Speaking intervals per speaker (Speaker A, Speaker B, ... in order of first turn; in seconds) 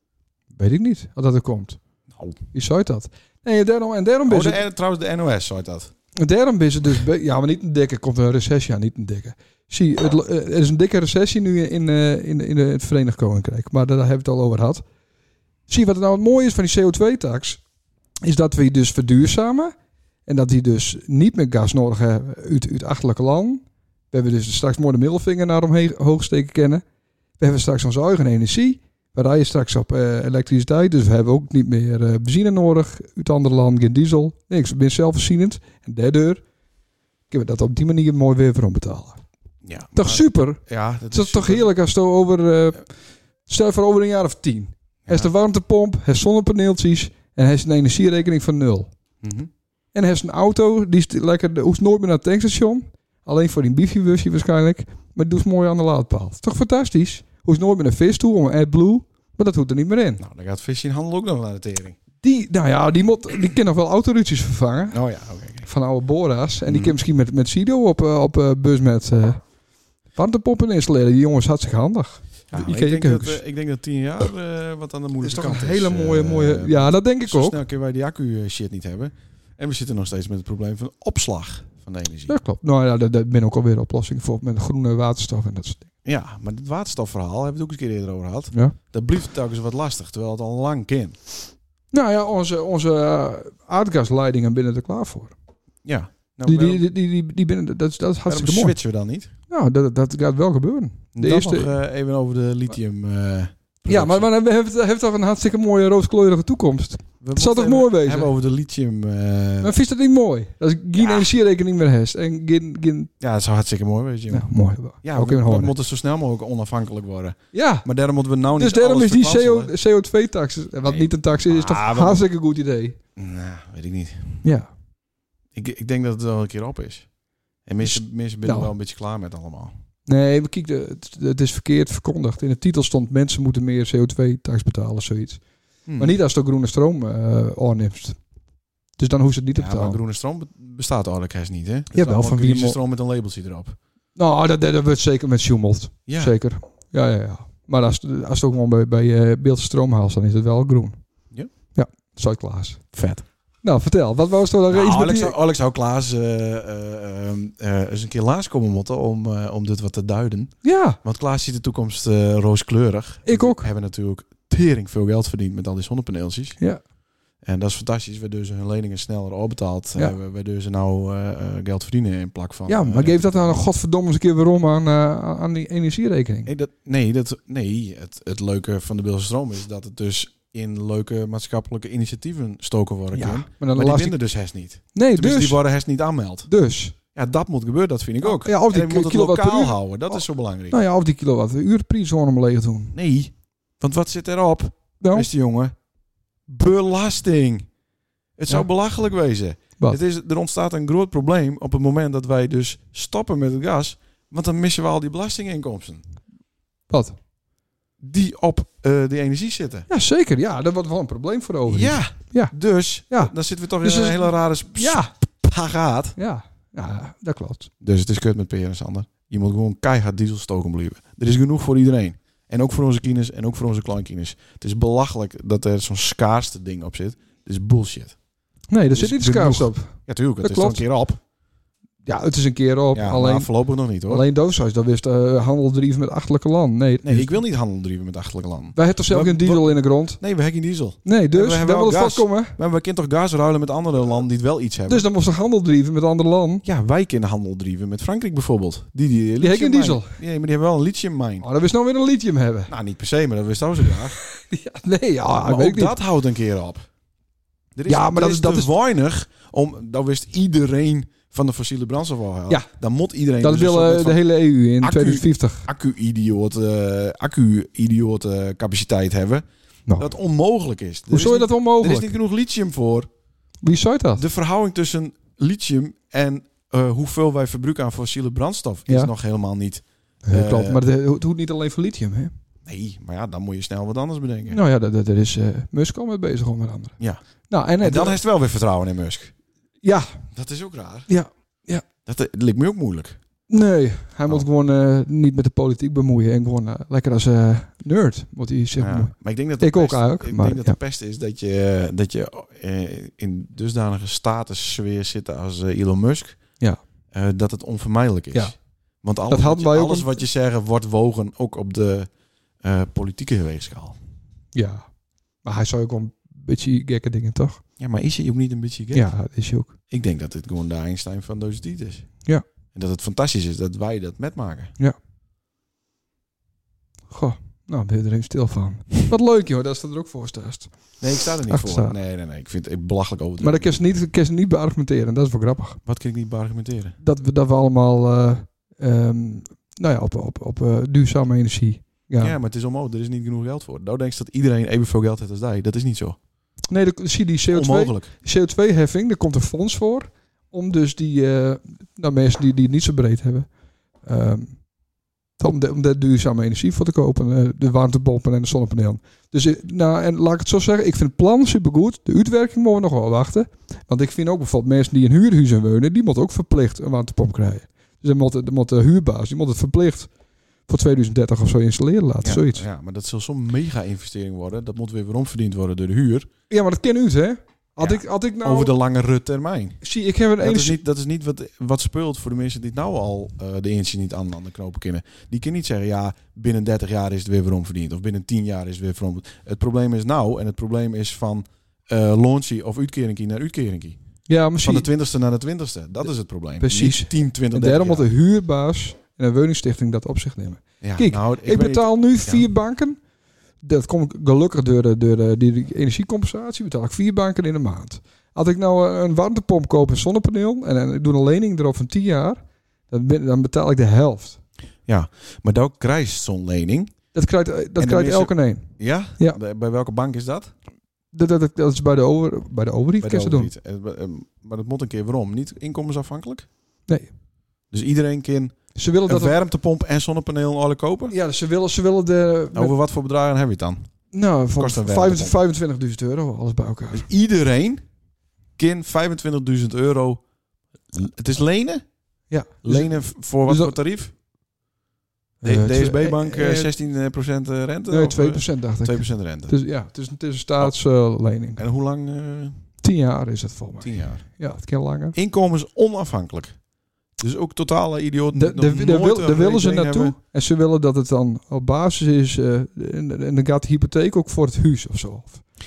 Speaker A: 0.6-1.8, 2.5-4.6, 6.2-14.8, 15.7-17.6, 18.2-19.7, 20.2-26.8, 27.4-36.4, 37.3-39.2, 39.9-42.9, 43.5-48.9, 49.9-60.2, 62.2-65.0, 65.6-69.4, 70.1-73.4, 75.2-77.6, 82.3-85.8, 91.9-95.3, 96.4-98.8, 99.5-101.7, 103.9-108.3, 109.6-113.1, 114.3-115.7, 117.5-117.8, 118.6-123.0, 124.4-124.7, 127.8-128.7, 130.1-135.4, 136.0-138.2, 139.0-140.0, 141.9-142.8, 144.2-151.0, 151.7-152.8, 153.6-155.3, 160.6-161.0, 163.2-163.7, 172.7-176.5, 183.1-184.2, 184.9-185.6, 186.5-186.9, 188.2-192.9, 195.0-195.3, 206.9-207.2, 209.9-212.5, 213.1-215.1, 216.2-217.7, 228.7-230.8, 232.0-233.5, 234.1-237.4, 238.7-240.2, 241.0-242.6, 244.9-246.6, 249.4-250.2, 251.4-252.7, 254.2-255.9, 257.9-258.7, 263.4-265.7, 271.1-272.1, 273.6-274.2, 280.2-282.3, 284.5-288.2, 289.8-290.2, 291.1-291.8, 293.5-300.8, 309.3-310.2, 314.5-314.9, 315.4-317.6, 318.9-319.7, 327.1-330.9, 331.5-331.9, 333.4-335.8, 337.0-342.4, 346.7-353.5, 354.0-354.7, 355.4-370.1, 370.7-372.6, 376.5-378.7, 379.8-380.8, 394.3-394.9, 396.6-403.0, 403.6-414.4, 417.1-419.4, 421.1-423.5, 426.9-427.1, 428.7-429.4, 431.1-432.7, 434.1-437.1, 442.3-443.8, 445.4-446.7, 447.9-451.6, 452.8-455.1, 458.3-465.4
Speaker B: 2.1-2.4, 4.3-5.9, 39.6-41.7, 49.2-49.5, 60.2-62.0, 64.9-65.7, 66.7-67.0, 72.5-82.3, 86.0-91.2, 95.8-96.8, 98.3-99.3, 101.1-104.3, 107.2-109.8, 111.0-111.3, 113.2-119.7, 120.8-122.2, 123.2-124.4, 125.5-127.1, 127.7-129.7, 135.8-136.2, 139.5-143.8, 146.1-146.3, 152.9-153.2, 154.7-166.6, 167.4-173.6, 176.4-186.5, 187.1-190.8, 192.9-195.7, 196.5-197.7, 198.4-206.0, 208.0-209.9, 211.7-216.2, 217.8-228.2, 228.9-231.2, 232.9-234.2, 237.0-245.1, 246.6-251.4, 252.7-254.2, 255.4-256.9, 257.7-264.2, 264.8-269.4, 270.0-273.1, 274.1-280.8, 282.6-284.6, 287.8-289.3, 290.3-291.1, 292.1-293.2, 298.8-306.4, 307.1-312.1, 312.6-314.0, 317.8-319.1, 319.9-322.1, 322.7-324.7, 331.0-333.8, 335.9-337.0, 342.2-346.2, 347.5-348.1, 372.2-376.3, 377.8-379.8, 380.4-394.0, 394.6-398.1, 400.8-402.5, 414.9-417.0, 417.8-420.5, 423.0-426.5, 427.7-431.1, 432.5-433.9, 434.6-435.4, 436.9-437.8, 438.6-440.2, 440.9-441.8, 442.6-444.1, 445.4-449.6, 451.6-452.6, 453.8-454.3, 455.1-456.6, 457.2-460.1